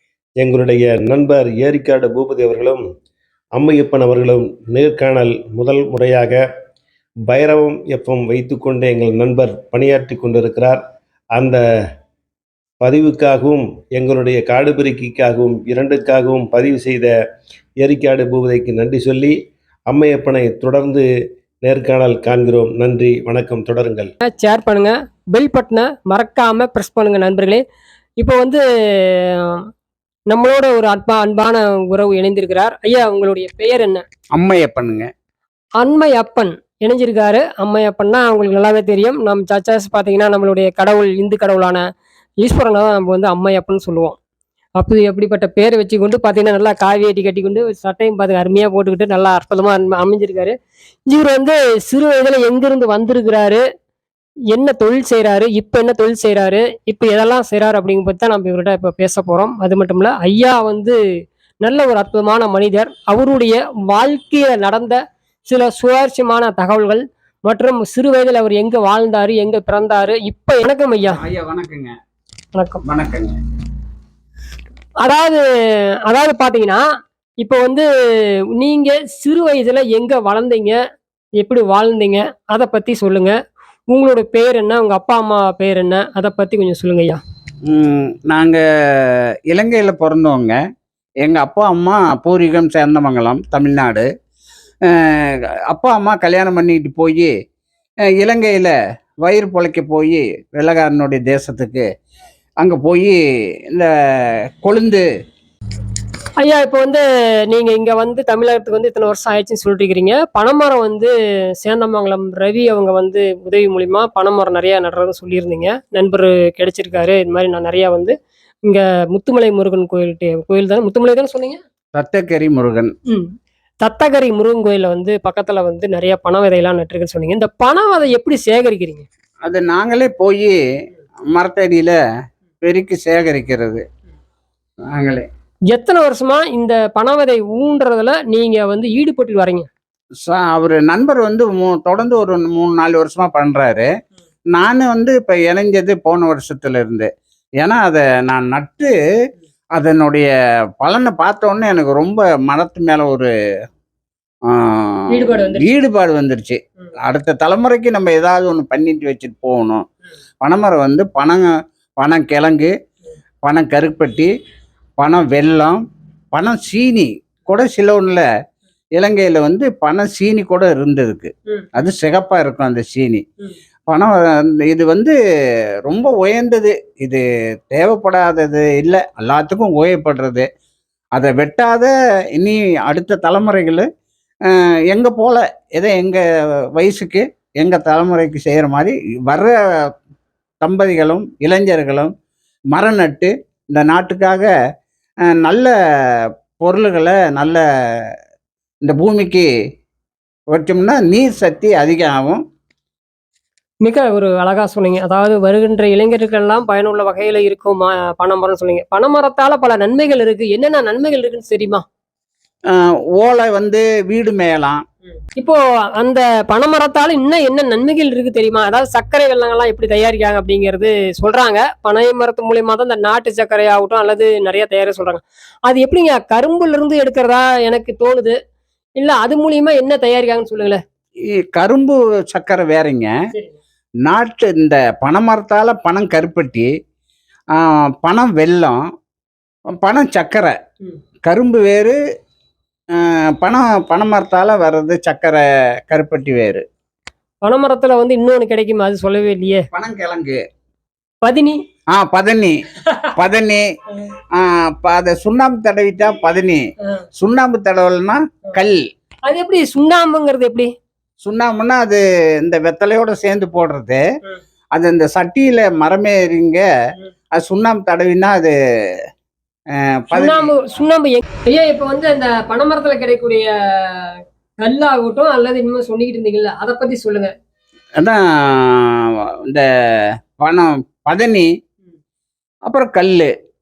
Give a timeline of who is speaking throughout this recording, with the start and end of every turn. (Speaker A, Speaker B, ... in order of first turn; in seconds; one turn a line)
Speaker A: 0.4-2.8
Speaker A: 3.5-6.4
Speaker A: 7.3-10.8
Speaker A: 12.8-17.1
Speaker A: 17.8-19.4
Speaker A: 19.9-21.0
Speaker A: 21.6-24.1
Speaker B: 24.2-27.6
Speaker B: 28.2-28.6
Speaker B: 30.3-34.0
Speaker C: 34.3-35.1
Speaker B: 35.8-41.8
Speaker B: 42.4-44.2
Speaker B: 44.8-50.5
Speaker B: 51.1-53.6
Speaker B: 54.5-61.0
Speaker B: 61.6-71.2
Speaker C: 71.2-71.9
Speaker B: 72.5-72.8
Speaker C: 72.8-73.3
Speaker B: 75.0-75.4
Speaker B: 76.1-76.8
Speaker B: 77.4-77.8
Speaker B: 78.6-80.8
Speaker B: 81.4-83.3
Speaker B: 83.9-87.2
Speaker C: 87.7-90.5
Speaker C: 91.2-94.0
Speaker C: 94.8-97.3
Speaker C: 98.2-101.8
Speaker C: 102.6-103.2
Speaker C: 104.6-105.0
Speaker B: 106.4-111.1
Speaker B: 111.6-118.1
Speaker B: 118.7-121.6
Speaker C: 121.9-122.9
Speaker B: 123.8-129.0
Speaker C: 129.4-130.6
Speaker C: 131.3-132.0
Speaker C: 132.6-133.8
Speaker C: 134.9-135.2
Speaker B: 135.7-139.7
Speaker C: 140.3-143.9
Speaker C: 144.5-147.1
Speaker C: 147.6-148.9
Speaker C: 149.8-150.3
Speaker C: 150.8-153.3
Speaker C: 154.5-159.8
Speaker B: 155.1-155.7
Speaker C: 160.4-161.5
Speaker C: 162.0-162.7
Speaker C: 163.4-164.3
Speaker C: 165.0-165.8
Speaker C: 166.3-168.2
Speaker C: 168.9-173.2
Speaker C: 173.9-175.1
Speaker C: 175.8-180.4
Speaker C: 181.1-183.8
Speaker C: 184.5-186.2
Speaker C: 186.8-189.5
Speaker C: 190.6-192.1
Speaker C: 192.7-194.5
Speaker C: 195.3-195.7
Speaker C: 196.6-197.6
Speaker C: 198.8-199.5
Speaker C: 200.5-202.4
Speaker B: 203.8-211.8
Speaker C: 212.7-214.8
Speaker B: 215.3-228.3
Speaker B: 229.0-230.8
Speaker C: 231.4-233.1
Speaker C: 234.0-236.7
Speaker C: 237.6-238.8
Speaker C: 239.8-240.5
Speaker C: 241.2-241.9
Speaker C: 242.9-246.6
Speaker B: 247.4-249.7
Speaker C: 249.7-250.4
Speaker B: 251.2-251.6
Speaker C: 251.9-252.5
Speaker B: 252.8-253.1
Speaker C: 253.2-253.6
Speaker C: 254.3-256.6
Speaker C: 257.2-258.9
Speaker B: 259.3-260.7
Speaker C: 261.2-264.0
Speaker C: 264.7-266.6
Speaker C: 267.3-268.5
Speaker C: 269.8-270.5
Speaker B: 270.1-277.3
Speaker C: 278.0-279.6
Speaker C: 280.4-281.5
Speaker C: 282.7-283.3